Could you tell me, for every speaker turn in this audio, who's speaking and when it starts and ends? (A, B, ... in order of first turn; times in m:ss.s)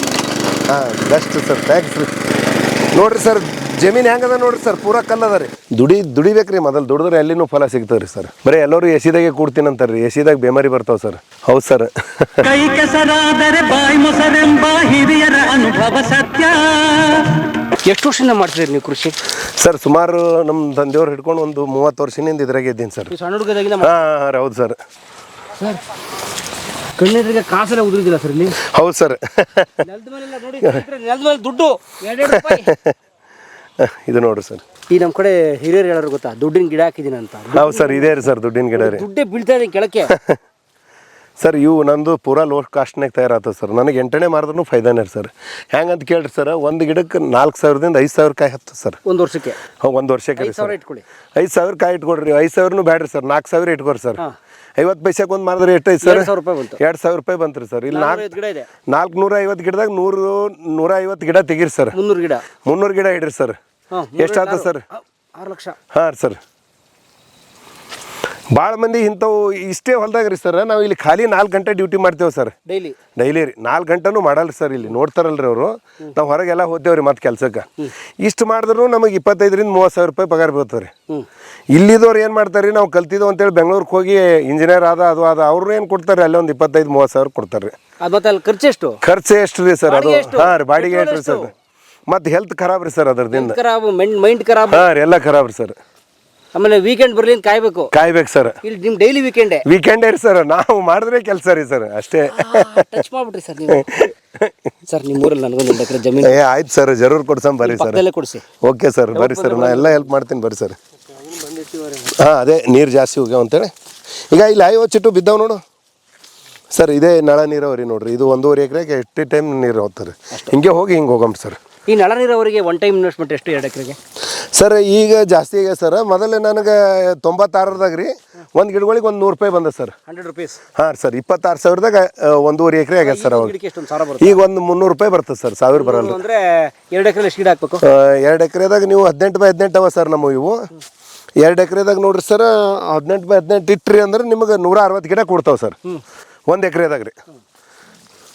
0:00.7-0:02.1 A
0:02.9-0:12.5 A
0:12.4-0:17.3 B
0:17.8-0:19.2 C
0:19.6-0:23.1 A
0:23.1-0:23.9 C
0:23.8-0:24.8 A
0:25.6-0:25.8 C
0:27.0-0:28.6 C
0:28.6-0:29.8 A
0:29.8-0:32.7 C
0:32.3-0:33.0 A
0:33.8-0:34.6 A
0:34.9-0:40.1 C
0:37.5-0:39.0 A
0:40.1-0:40.4 A
0:41.4-0:49.0 A
0:49.0-0:49.6 C
0:49.8-0:50.7 A
0:50.4-0:51.0 C
0:51.4-0:54.2 A
0:54.8-0:58.3 A
0:56.0-0:56.8 C
0:57.9-0:58.7 C
0:58.9-1:02.0 A
1:01.9-1:02.5 C
1:02.6-1:03.6 A
1:03.9-1:05.8 C
1:04.2-1:04.8 A
1:05.9-1:06.4 A
1:08.5-1:12.6 A
1:12.7-1:13.0 C
1:13.2-1:17.7 A
1:18.2-1:20.9 A
1:21.7-1:27.8 A
1:28.0-1:29.0 C
1:29.0-1:31.5 A
1:29.9-1:31.5 C
1:32.1-1:33.6 A
1:33.3-1:34.9 C
1:34.7-1:35.8 A
1:36.5-1:37.9 C
1:37.9-1:38.6 A
1:38.6-1:39.6 C
1:39.6-1:43.0 A
1:42.3-1:43.8 C
1:43.7-1:44.7 A
1:44.9-1:46.4 C
1:46.2-1:48.0 A
1:47.6-1:48.4 C
1:48.6-1:50.8 A
1:49.1-1:50.1 C
1:51.1-1:52.2 C
1:52.1-1:53.7 A
1:54.3-1:55.6 A
1:56.7-2:01.6 A
2:01.9-2:04.0 C
2:04.6-2:10.0 A
2:10.1-2:10.6 C
2:10.8-2:13.5 A
2:13.0-2:14.4 C
2:14.2-2:16.2 A
2:15.8-2:17.8 C
2:17.8-2:20.7 A
2:21.4-2:25.8 A
2:26.5-2:27.2 A